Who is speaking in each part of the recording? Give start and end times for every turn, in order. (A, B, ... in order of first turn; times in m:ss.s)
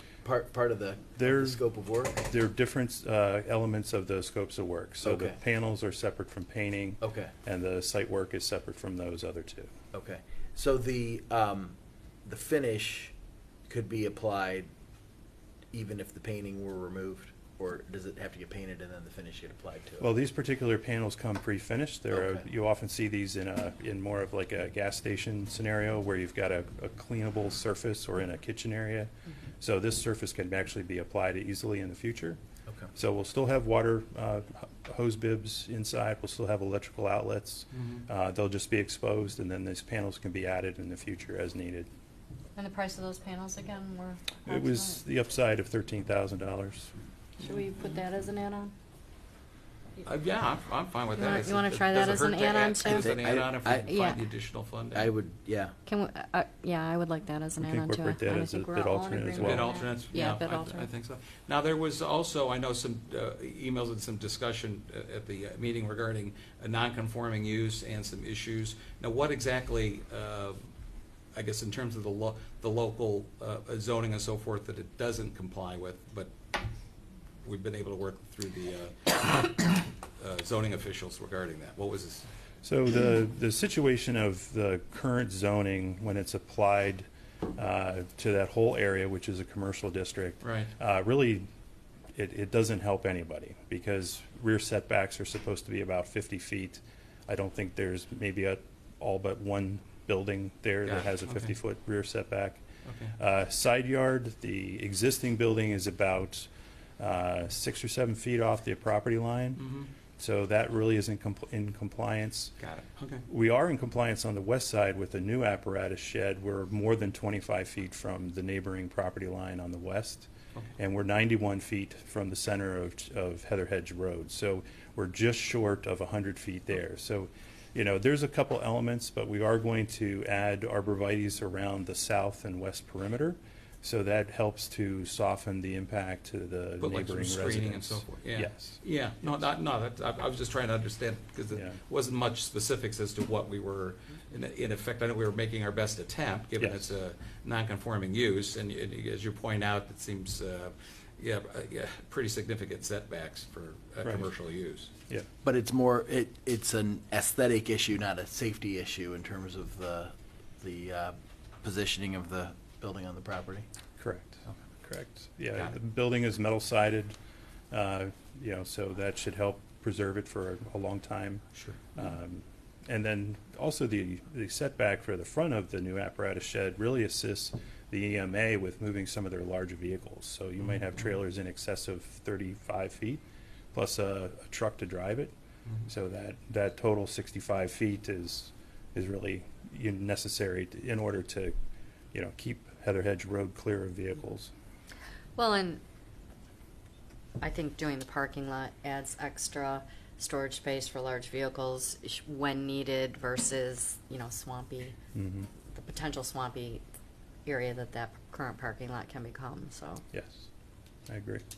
0:00.2-0:02.2 A
0:01.2-0:01.6 B
0:02.2-0:09.7 B
0:05.0-0:05.4 A
0:07.0-0:07.3 A
0:09.9-0:13.1 A
0:13.7-0:14.7 A
0:15.7-0:20.1 A
0:20.0-0:32.4 B
0:22.1-0:22.4 A
0:33.0-0:41.9 B
0:37.7-0:38.1 C
0:42.6-0:45.0 D
0:44.5-0:46.9 B
0:47.4-0:48.7 D
0:50.0-0:55.1 C
0:51.2-0:53.1 D
0:52.8-0:53.9 A
0:53.9-0:54.2 D
0:54.9-0:55.8 A
0:55.9-1:00.9 D
0:57.6-0:59.7 B
0:59.4-1:10.7 C
1:11.3-1:16.3 C
1:17.4-1:22.3 C
1:22.6-1:31.5 B
1:30.4-1:30.7 C
1:32.2-1:42.6 B
1:40.8-1:41.5 C
1:42.8-1:43.2 C
1:43.2-1:49.6 B
1:49.6-1:49.9 C
1:50.2-1:52.6 B
1:52.6-1:53.3 C
1:53.3-2:18.8 B
2:16.8-2:34.9 C
2:21.5-2:21.8 B
2:26.6-2:26.9 B
2:34.0-2:34.3 B
2:35.4-2:43.7 A
2:44.0-2:47.2 B
2:47.7-2:51.4 B
2:51.6-2:51.8 C
2:52.0-3:03.2 B
3:03.7-3:05.3 B
3:05.9-3:11.6 B
3:12.1-3:14.5 B
3:15.4-3:15.8 D
3:17.4-3:25.0 D
3:25.2-3:25.5 B
3:25.7-3:26.8 D
3:27.4-3:30.0 D
3:30.1-3:30.5 B
3:31.1-3:31.4 B